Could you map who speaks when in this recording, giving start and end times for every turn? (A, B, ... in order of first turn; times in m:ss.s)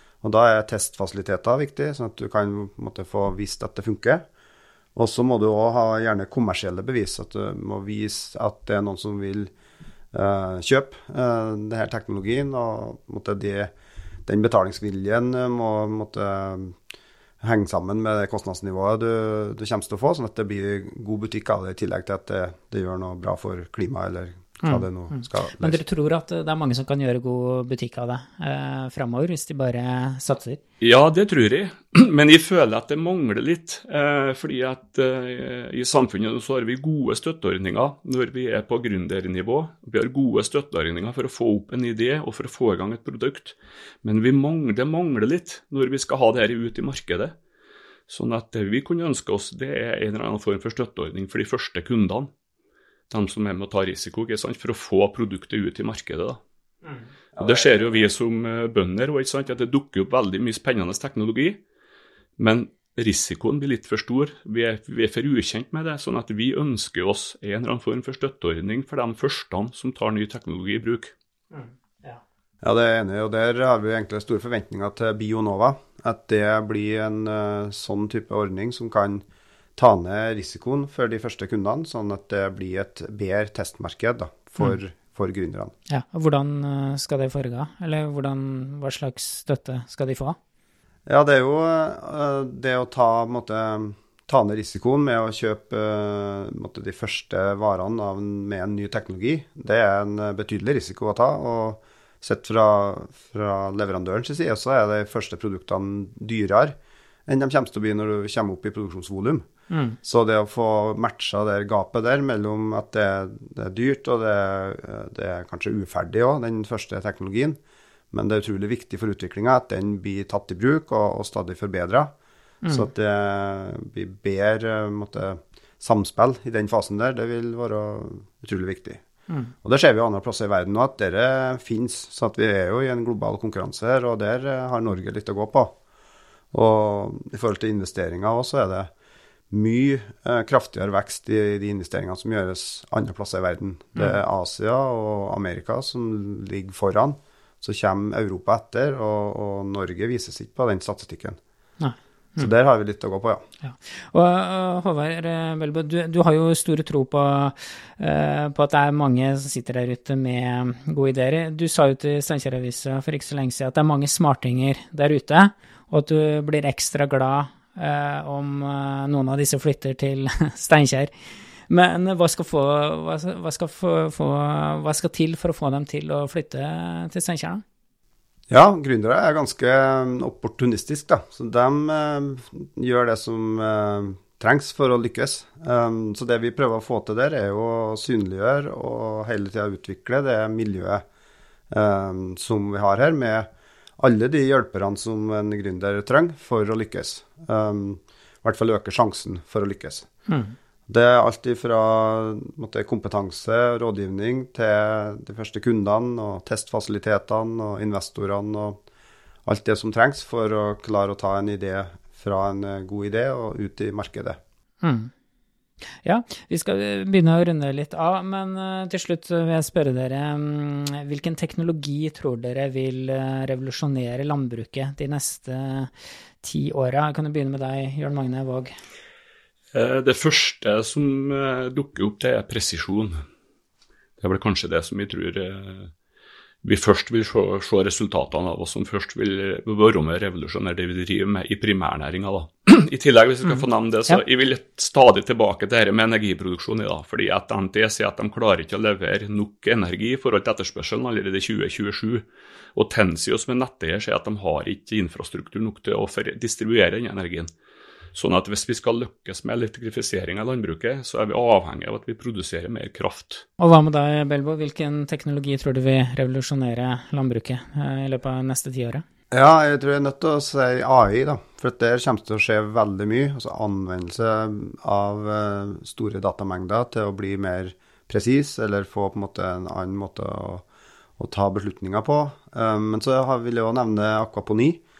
0:00.2-0:04.2 A
0:04.9-0:09.5 A
0:10.1-0:13.7 A
0:14.2-0:16.8 A
0:17.4-0:25.8 A
0:24.6-0:30.6 B
0:30.8-0:47.3 C
0:48.1-0:52.3 C
0:53.1-0:56.4 C
0:57.4-0:57.7 A
0:57.4-1:01.6 C
1:02.4-1:11.1 C
1:11.5-1:12.2 B
1:12.6-1:19.2 A
1:19.8-1:25.7 A
1:25.9-1:30.4 B
1:31.0-1:46.8 A
1:47.3-1:49.5 A
1:49.7-1:50.0 B
1:50.0-1:57.6 A
1:58.1-2:02.1 A
2:02.7-2:09.0 A
2:09.6-2:15.7 A
2:16.5-2:18.9 A
2:19.5-2:31.4 A
2:31.8-2:32.5 B
2:32.4-2:33.4 A
2:33.6-2:51.1 B
2:51.7-2:57.6 B
2:58.5-3:11.0 A
3:11.7-3:13.5 A
3:14.0-3:20.1 A
3:20.3-3:20.5 B
3:20.9-3:28.8 A
3:29.4-3:34.4 A
3:34.8-3:35.1 B
3:36.0-3:45.9 B
3:46.4-3:48.7 B
3:49.7-3:53.2 C
3:54.2-3:55.9 C
3:56.6-4:12.2 C
4:12.7-4:17.5 C
4:18.1-4:23.4 C
4:23.6-4:29.0 B
4:29.3-4:40.6 A
4:41.2-4:44.8 A